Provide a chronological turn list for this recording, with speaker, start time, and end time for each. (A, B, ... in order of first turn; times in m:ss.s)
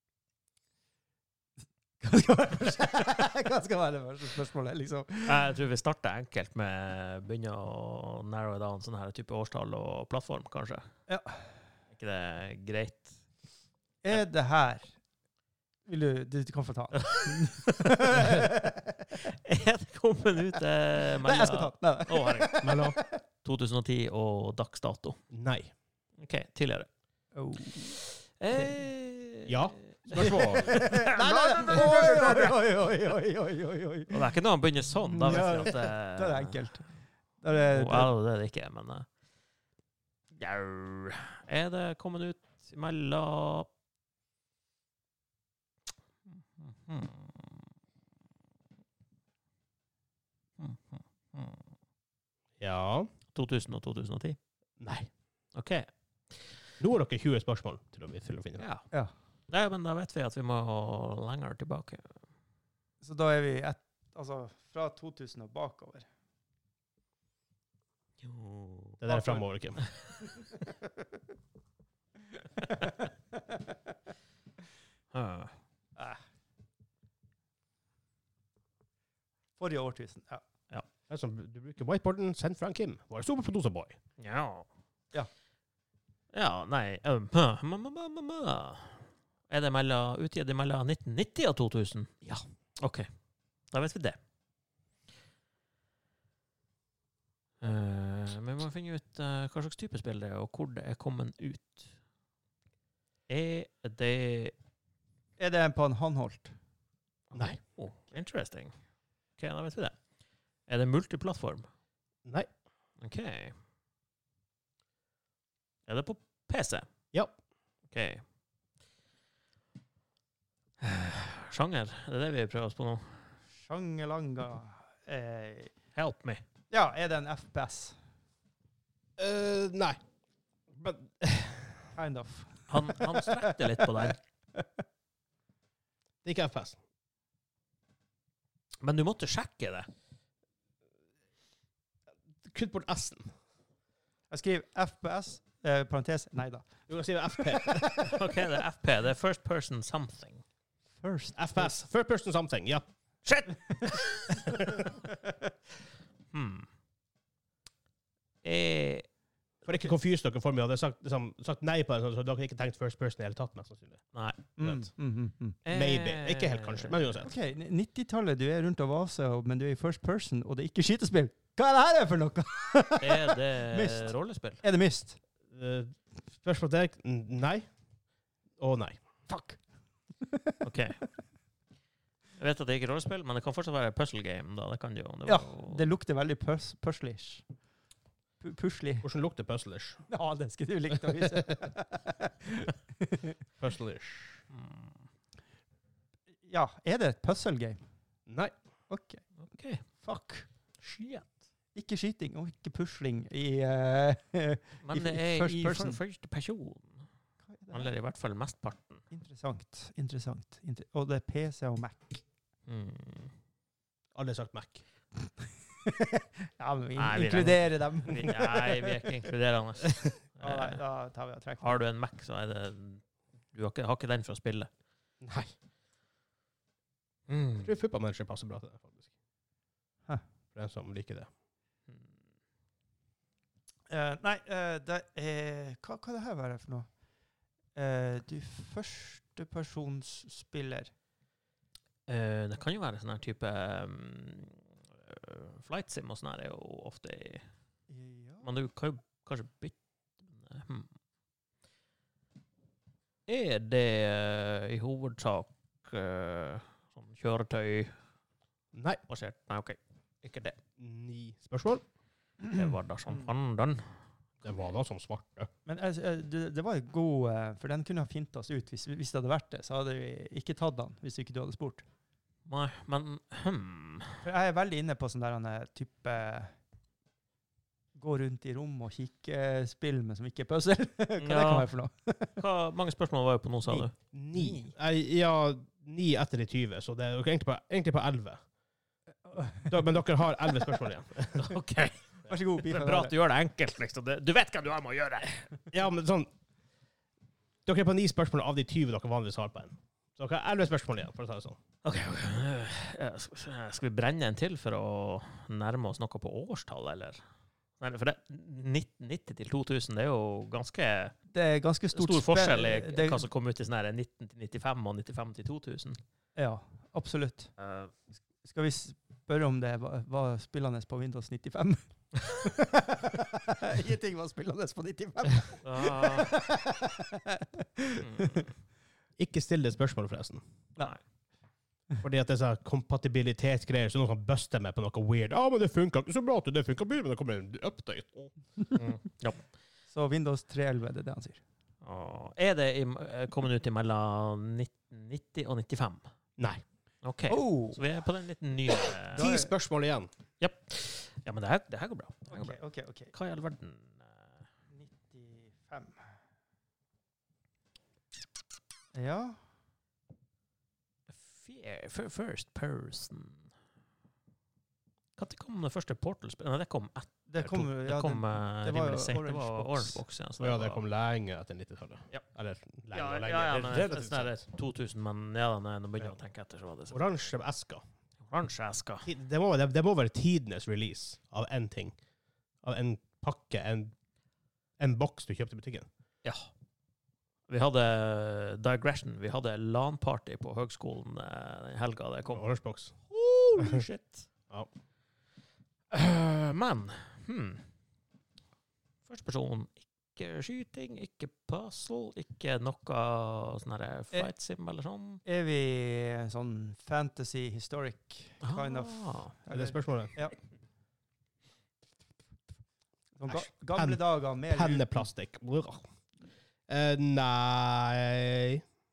0:02.0-0:05.5 A
0:05.3-0:10.9 B
0:11.1-0:11.4 A
0:11.9-0:13.2 B
0:14.0-0:14.9 A
0:15.9-0:19.0 A
0:17.0-0:18.5 B
0:19.1-0:22.7 B
0:21.2-0:23.0 A
0:22.6-0:23.0 C
0:23.4-0:25.2 B
0:25.3-0:25.7 C
0:26.2-0:26.9 B
0:27.3-0:28.0 A
0:27.9-0:32.6 B
0:29.5-0:30.9 C
0:30.2-0:34.3 A
0:34.1-0:36.6 B
0:35.1-0:36.8 A
0:37.4-0:38.1 A
0:37.6-0:39.1 B
0:40.4-0:43.7 B
0:46.6-0:47.5 B
0:50.6-0:51.6 B
0:52.6-0:53.1 C
0:53.4-0:54.4 B
0:54.8-0:55.1 C
0:55.5-0:56.4 B
0:56.8-0:58.6 C
0:58.6-0:58.9 B
0:59.5-1:02.1 B
1:03.0-1:06.1 A
1:08.2-1:09.0 B
1:09.0-1:09.8 C
1:09.1-1:09.4 A
1:10.4-1:10.6 A
1:12.6-1:13.8 A
1:15.1-1:15.6 B
1:16.0-1:16.2 A
1:19.6-1:20.4 A
1:21.1-1:24.0 C
1:24.2-1:24.7 B
1:26.3-1:33.1 B
1:33.7-1:34.2 B
1:37.6-1:41.9 B
1:43.3-1:44.5 B
1:45.4-1:46.6 A
1:47.3-1:47.6 C
1:47.6-1:48.7 B
1:49.4-1:50.0 B
1:50.7-1:51.7 B
1:53.0-1:53.6 B
1:55.9-1:56.9 B
1:57.9-1:58.2 B
2:00.8-2:03.2 B
2:03.6-2:05.8 A
2:06.0-2:06.4 B
2:06.7-2:08.0 A
2:09.2-2:10.0 C
2:10.7-2:11.9 C
2:12.0-2:14.7 A
2:12.7-2:14.2 B
2:16.2-2:16.8 C
2:18.8-2:19.9 B
2:22.5-2:23.3 C
2:24.3-2:26.7 A
2:26.9-2:27.9 C
2:27.5-2:28.1 A
2:28.0-2:30.4 B
2:31.0-2:31.7 A
2:31.4-2:32.9 C
2:33.2-2:34.6 B
2:34.5-2:34.8 C
2:36.3-2:36.7 B
2:38.4-2:39.1 B
2:39.6-2:44.0 C
2:44.1-2:44.7 B
2:44.6-2:45.6 A
2:45.6-2:47.0 B
2:45.7-2:47.3 C
2:47.2-2:55.2 A
2:53.0-2:54.6 B
2:55.5-2:57.7 C
2:58.6-2:59.0 C
2:59.3-2:59.6 A
3:00.2-3:00.6 A
3:00.6-3:01.0 B
3:02.4-3:05.9 B
3:05.3-3:07.4 A
3:08.4-3:09.1 A
3:09.0-3:10.0 C
3:10.1-3:13.4 A
3:13.6-3:14.4 C
3:14.5-3:14.9 B
3:16.4-3:17.8 A
3:18.3-3:18.5 C
3:18.9-3:19.2 A
3:19.4-3:19.8 B
3:20.0-3:20.5 A
3:20.8-3:21.3 B
3:21.8-3:26.0 A
3:24.8-3:27.1 B
3:27.5-3:27.9 A
3:27.7-3:29.0 B
3:29.1-3:32.2 A
3:32.7-3:33.3 B
3:34.2-3:34.8 C
3:35.8-3:39.1 A
3:37.0-3:40.8 B
3:40.4-3:41.8 A
3:41.6-3:44.7 B
3:45.2-3:45.5 C
3:47.3-3:47.7 B
3:47.6-3:49.0 C
3:50.6-3:51.3 C
3:53.9-3:56.9 A
3:57.8-4:00.9 A
4:02.1-4:07.5 B
4:07.9-4:08.5 A
4:08.4-4:10.9 B
4:13.3-4:17.9 B
4:18.8-4:19.0 C
4:19.1-4:20.6 B
4:20.8-4:21.8 C
4:22.5-4:23.8 B
4:24.4-4:25.5 C
4:25.7-4:31.8 A
4:32.5-4:34.2 B
4:34.2-4:36.6 A
4:38.0-4:42.4 A
4:41.2-4:41.7 B
4:42.4-4:43.9 B
4:44.1-4:48.4 C
4:49.3-4:49.7 A
4:49.7-4:51.5 C
4:51.4-4:52.0 B
4:52.3-4:53.1 A
4:52.6-4:55.5 B
4:55.7-4:56.3 C
4:57.7-5:01.6 C
5:01.8-5:07.2 B
5:07.8-5:11.1 B
5:11.3-5:13.3 A
5:11.9-5:16.0 B
5:16.4-5:17.5 A
5:17.6-5:17.9 B
5:18.4-5:28.5 A
5:25.6-5:26.3 B
5:28.0-5:28.5 B
5:29.2-5:30.4 C
5:32.0-5:38.3 C
5:38.8-5:39.4 B
5:39.9-5:41.4 A
5:41.8-5:46.0 B
5:46.4-5:46.6 C
5:47.0-5:49.3 B
5:47.3-5:47.8 A
5:49.1-5:49.5 A
5:49.2-5:50.1 C
5:50.4-5:52.6 B
5:52.3-5:53.1 A
5:53.1-5:54.0 B
5:54.7-5:56.0 A
5:58.9-5:59.4 A
6:01.1-6:03.5 B
6:05.2-6:10.8 B
6:07.3-6:10.0 A
6:10.4-6:14.4 C
6:12.9-6:17.3 B
6:16.9-6:17.8 C
6:18.2-6:19.1 B
6:19.0-6:22.0 C
6:22.6-6:23.9 C
6:24.8-6:25.9 C
6:26.2-6:26.5 B
6:27.5-6:34.3 B
6:32.3-6:33.0 C
6:35.9-6:37.7 B
6:39.1-6:45.2 B
6:45.2-6:50.4 A
6:48.4-6:49.3 B
6:49.5-6:50.2 C
6:53.2-6:55.1 A
6:53.8-6:55.9 C
6:56.7-6:58.6 C